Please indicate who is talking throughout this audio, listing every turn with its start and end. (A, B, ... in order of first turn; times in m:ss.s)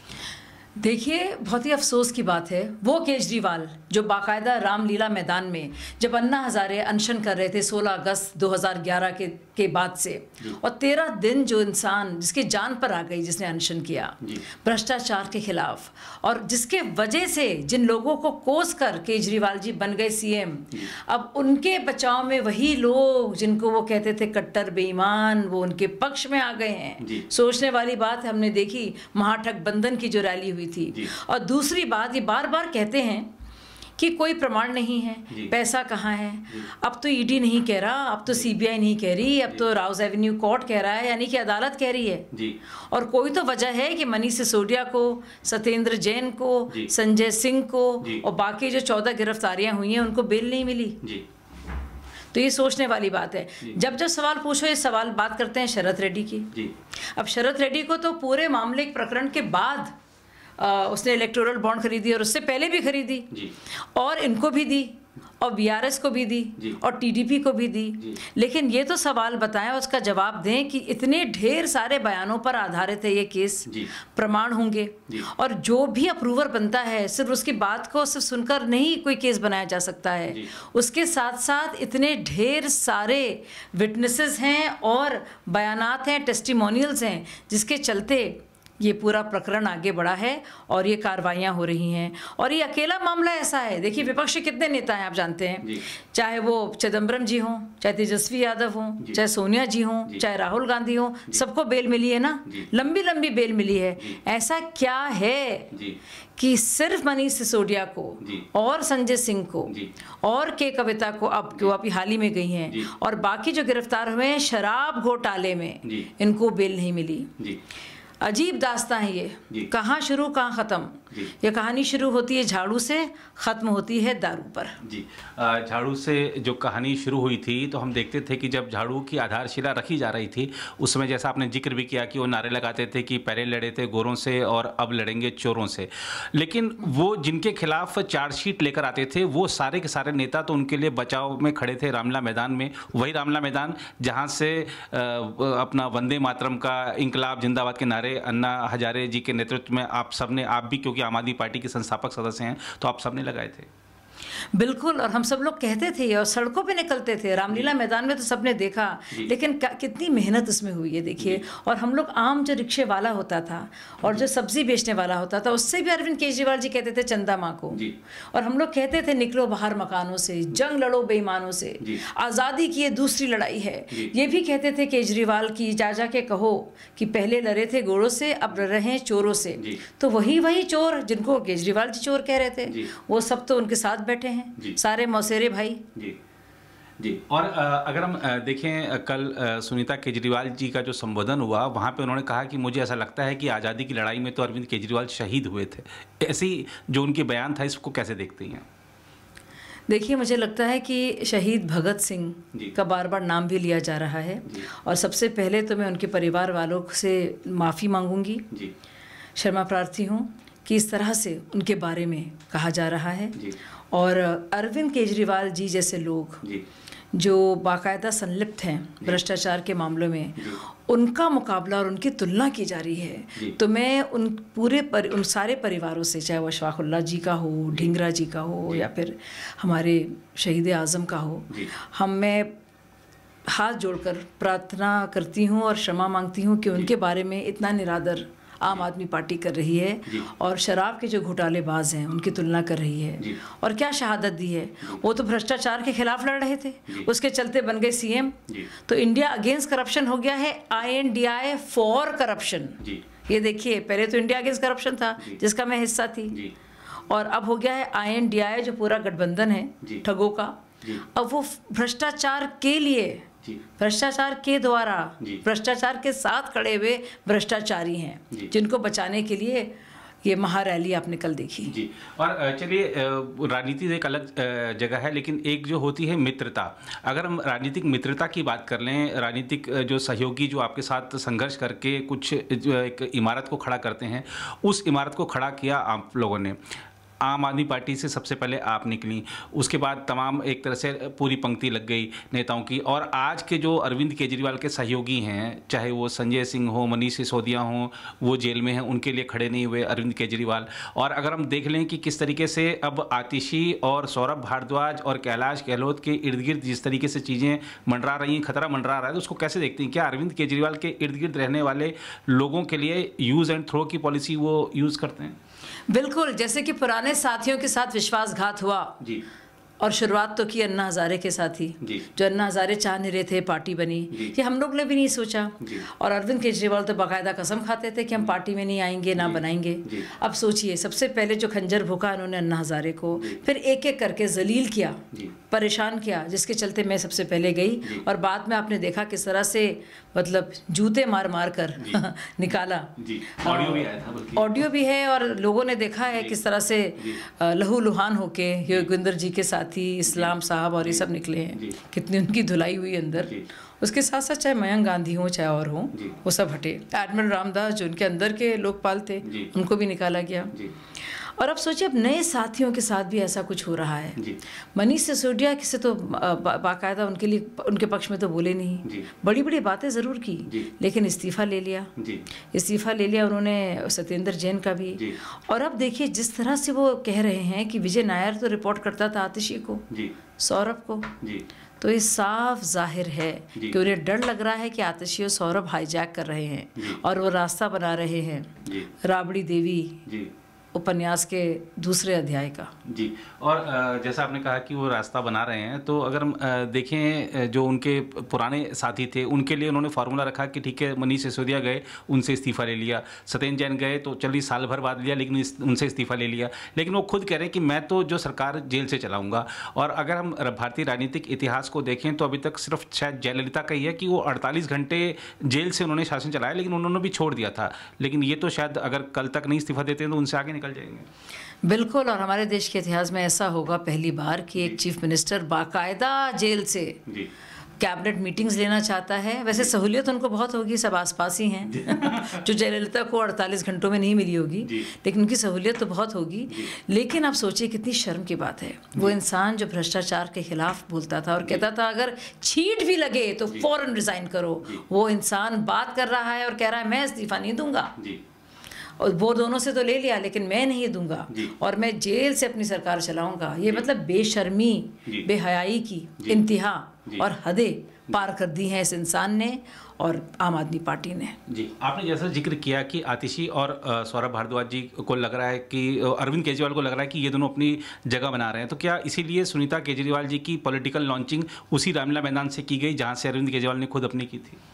0:00.8-0:33.3 A
0:34.0-0:42.3 A
0:42.9-0:51.0 A
0:52.3-0:56.6 A
0:57.1-0:59.9 A
1:00.6-1:45.7 A
1:46.4-1:57.3 A
1:58.2-2:04.8 A
2:04.8-2:33.7 B
2:34.5-3:05.8 A
3:07.0-3:18.6 B
3:19.9-3:28.4 A
3:29.4-3:36.4 A
3:37.1-3:52.5 A
3:53.5-4:16.5 A
4:17.1-4:23.2 A
4:23.8-4:31.7 A
4:31.6-4:46.6 B
4:47.2-5:15.3 B
5:15.9-5:19.0 A
5:19.8-6:00.6 A
5:29.2-5:30.0 B
5:43.0-5:44.6 B
5:50.1-5:50.3 B
6:01.2-6:04.2 A
6:04.7-6:11.9 A
6:12.0-6:12.2 B
6:12.5-6:19.9 A
6:20.4-6:21.1 A
6:21.8-6:30.0 A
6:30.0-6:30.3 B
6:30.7-6:32.7 A
6:32.8-7:01.0 B
7:01.6-7:07.0 A
7:07.8-7:28.0 A
7:11.7-7:12.4 B
7:29.0-7:41.4 A
7:41.5-7:54.6 B